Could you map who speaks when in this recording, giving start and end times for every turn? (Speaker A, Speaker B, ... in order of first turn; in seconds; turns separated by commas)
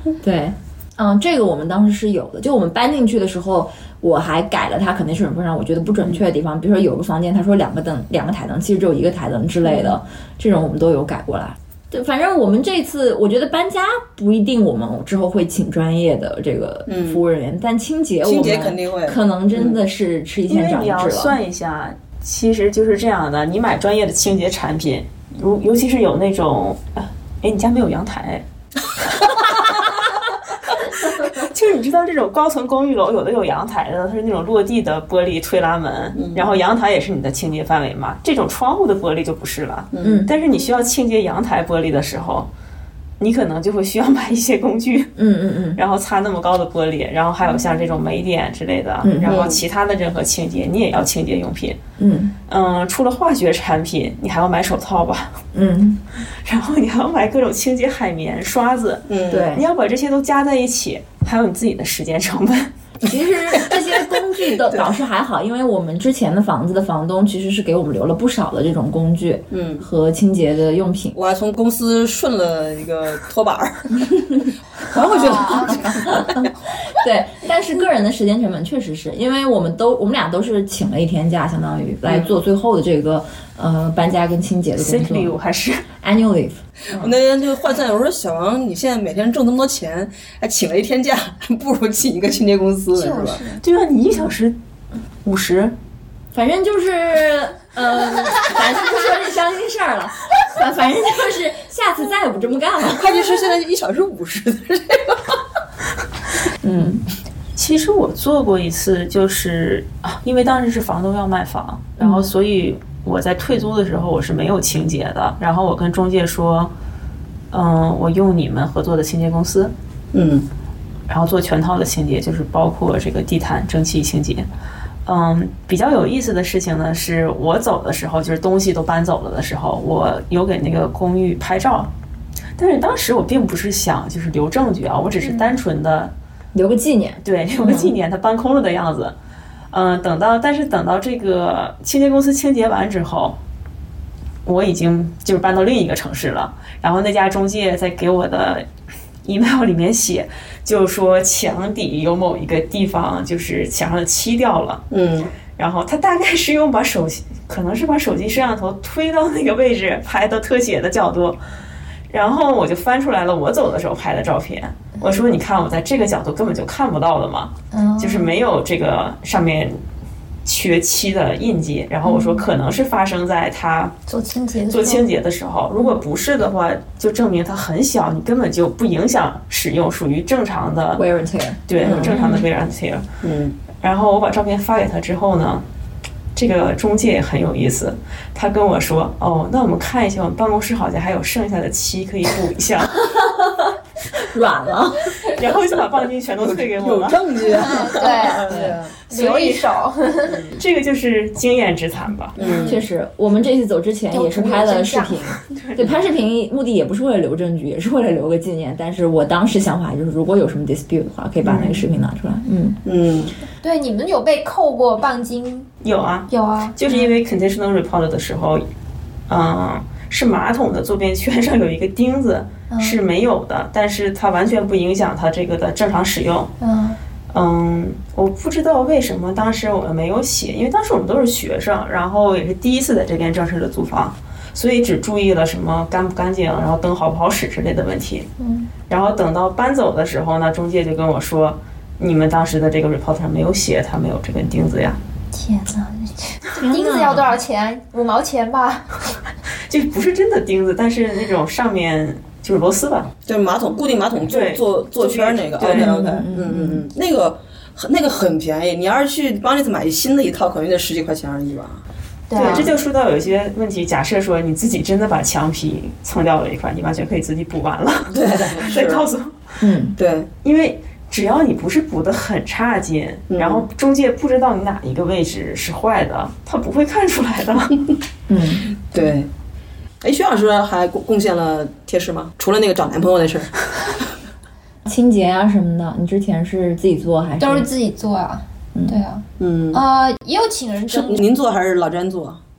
Speaker A: 0.2-21.4, Speaker B: 16.9-17.2, Speaker B: 18.2-19.8, Speaker C: 20.5-28.4, Speaker C: 29.0-42.5, Speaker B: 36.1-36.5, Speaker B: 39.9-40.3, Speaker A: 40.0-40.3, Speaker C: 43.2-45.1, Speaker A: 45.2-45.8, Speaker C: 45.7-51.8, Speaker A: 49.0-49.5, Speaker B: 49.2-49.6, Speaker A: 52.0-52.3, Speaker C: 52.5-55.4, Speaker A: 55.5-56.0, Speaker C: 56.4-62.7, Speaker B: 59.1-59.5, Speaker A: 59.3-59.6, Speaker A: 63.0-71.2, Speaker B: 69.5-69.8, Speaker B: 71.1-76.5, Speaker D: 75.1-75.8, Speaker A: 76.0-85.3, Speaker B: 82.1-82.3, Speaker C: 84.8-85.8, Speaker A: 86.0-87.1, Speaker B: 86.9-93.4, Speaker D: 92.9-93.6, Speaker C: 93.6-94.5, Speaker C: 95.2-95.7, Speaker A: 96.3-103.2, Speaker B: 102.9-105.3, Speaker A: 106.6-107.0, Speaker C: 107.5-116.7, Speaker A: 112.0-112.3, Speaker C: 117.5-119.7, Speaker B: 120.1-120.5, Speaker C: 121.1-124.5, Speaker C: 125.0-131.9, Speaker C: 132.6-136.1, Speaker A: 136.5-137.9, Speaker C: 137.2-139.1, Speaker C: 139.7-143.4, Speaker C: 144.4-148.6, Speaker C: 149.2-154.8, Speaker B: 154.9-155.3, Speaker C: 155.6-161.4, Speaker C: 162.1-169.8, Speaker D: 167.7-168.4, Speaker C: 170.4-174.0, Speaker D: 172.0-172.4, Speaker D: 174.1-175.0, Speaker C: 174.7-181.0, Speaker A: 180.9-182.3, Speaker C: 181.7-183.0, Speaker B: 181.8-182.1, Speaker B: 183.2-183.6, Speaker C: 183.8-185.6, Speaker C: 186.3-193.2, Speaker A: 194.1-195.3, Speaker C: 195.2-197.2, Speaker B: 196.4-198.9, Speaker D: 197.5-198.6, Speaker A: 198.5-198.8, Speaker D: 199.1-200.5, Speaker C: 199.1-199.6, Speaker C: 200.3-202.3, Speaker B: 202.3-202.8, Speaker D: 202.4-202.8, Speaker A: 202.6-212.8, Speaker D: 204.1-205.3, Speaker C: 205.5-205.9, Speaker B: 211.4-211.8, Speaker B: 212.8-213.3, Speaker D: 213.6-215.7, Speaker C: 215.8-218.7, Speaker D: 216.3-217.1, Speaker C: 219.3-226.5, Speaker D: 222.7-223.0, Speaker D: 226.6-227.0, Speaker C: 227.3-238.3, Speaker D: 238.4-238.7, Speaker C: 238.9-245.0, Speaker D: 245.3-249.0, Speaker A: 246.6-247.2, Speaker C: 249.7-253.1, Speaker B: 253.2-261.8, Speaker C: 254.3-256.2, Speaker A: 255.6-256.8, Speaker D: 262.3-262.7, Speaker B: 262.3-262.7, Speaker C: 262.4-269.3, Speaker B: 268.1-269.1, Speaker A: 269.6-269.9, Speaker B: 270.0-270.3, Speaker C: 270.4-277.8, Speaker B: 273.3-273.6, Speaker A: 278.3-278.7, Speaker B: 278.9-279.3, Speaker B: 280.0-284.1, Speaker A: 284.9-287.7, Speaker D: 287.4-291.2, Speaker B: 289.4-289.8, Speaker B: 290.9-292.4